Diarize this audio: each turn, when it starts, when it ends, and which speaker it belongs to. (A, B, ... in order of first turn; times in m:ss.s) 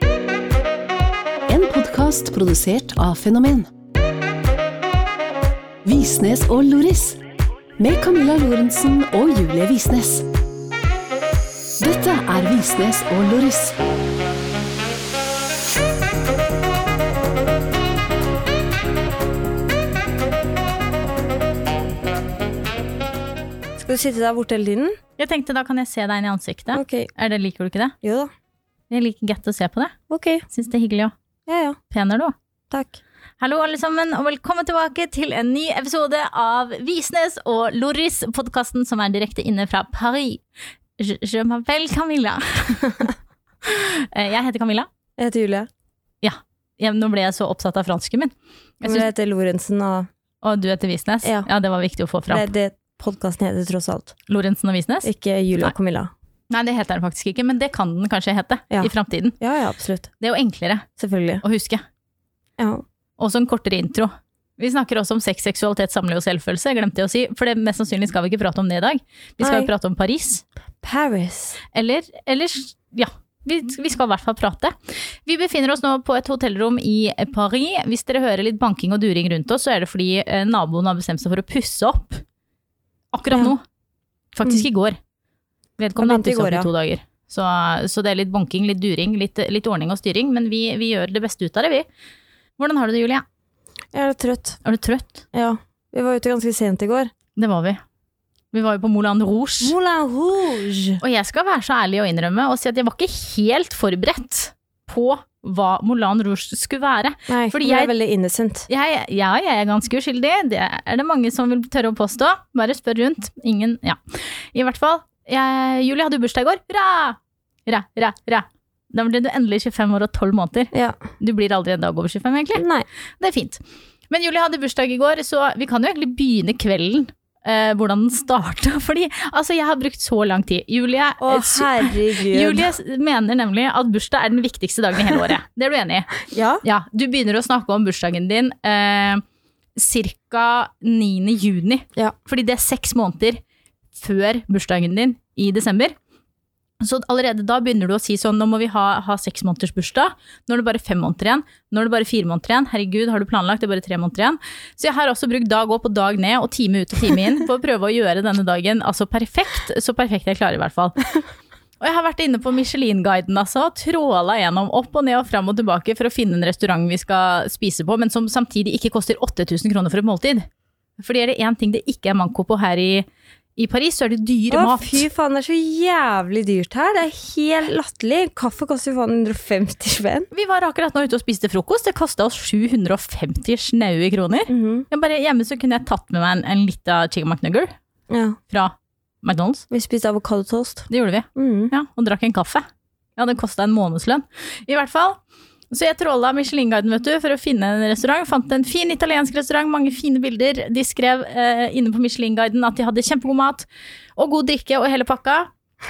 0:01.5-0:03.7 A
0:05.8-0:07.2 A
0:07.8-0:10.3 A
0:11.8-0:13.8 A
0:23.8-0:24.9 B
0:25.2-0:28.0 C
0:26.7-0:27.1 B
0:28.0-0:28.3 B
0:28.9-0:30.0 C
0:30.1-0:30.4 B
0:30.5-0:31.1 C
0:31.5-0:31.8 B
0:31.9-0:32.3 C
0:32.7-0:33.0 B
0:33.4-0:40.4 C
0:41.0-0:43.1 C
0:43.6-0:44.9 C
0:45.2-0:45.7 B
0:46.2-0:49.1 C
0:48.8-0:50.1 B
0:50.4-0:52.5 C
0:51.2-0:51.5 B
0:52.3-0:54.1 B
0:54.3-0:55.7 C
0:55.0-0:56.1 B
0:56.5-0:59.4 C
0:58.7-1:00.1 B
1:00.2-1:00.8 C
1:01.0-1:01.4 B
1:01.4-1:01.8 C
1:02.6-1:02.8 B
1:03.2-1:10.4 C
1:09.4-1:09.7 B
1:10.8-1:11.6 B
1:11.7-1:22.2 C
1:23.1-1:23.6 C
1:24.4-1:25.0 C
1:25.8-1:31.8 C
1:26.0-1:26.7 B
1:32.6-1:33.2 C
1:33.9-1:34.6 B
1:34.6-1:35.2 C
1:35.3-1:37.1 B
1:37.4-1:37.8 C
1:38.5-1:39.7 C
1:39.6-1:41.0 B
1:41.0-1:47.9 C
1:47.3-1:48.7 B
1:48.7-2:02.6 C
2:02.6-2:02.9 B
2:03.2-2:19.2 C
2:11.2-2:12.7 B
2:16.3-2:16.6 B
2:19.8-2:23.4 C
2:24.0-2:25.9 C
2:26.8-2:41.0 C
2:41.8-2:50.4 C
2:51.0-2:53.0 C
2:53.6-2:55.1 C
2:54.5-3:00.3 B
3:00.3-3:07.7 C
3:04.5-3:04.9 B
3:08.1-3:08.4 B
3:08.5-3:09.6 C
3:09.7-3:11.7 B
3:10.9-3:12.6 C
3:13.2-3:15.2 C
3:15.7-3:25.5 C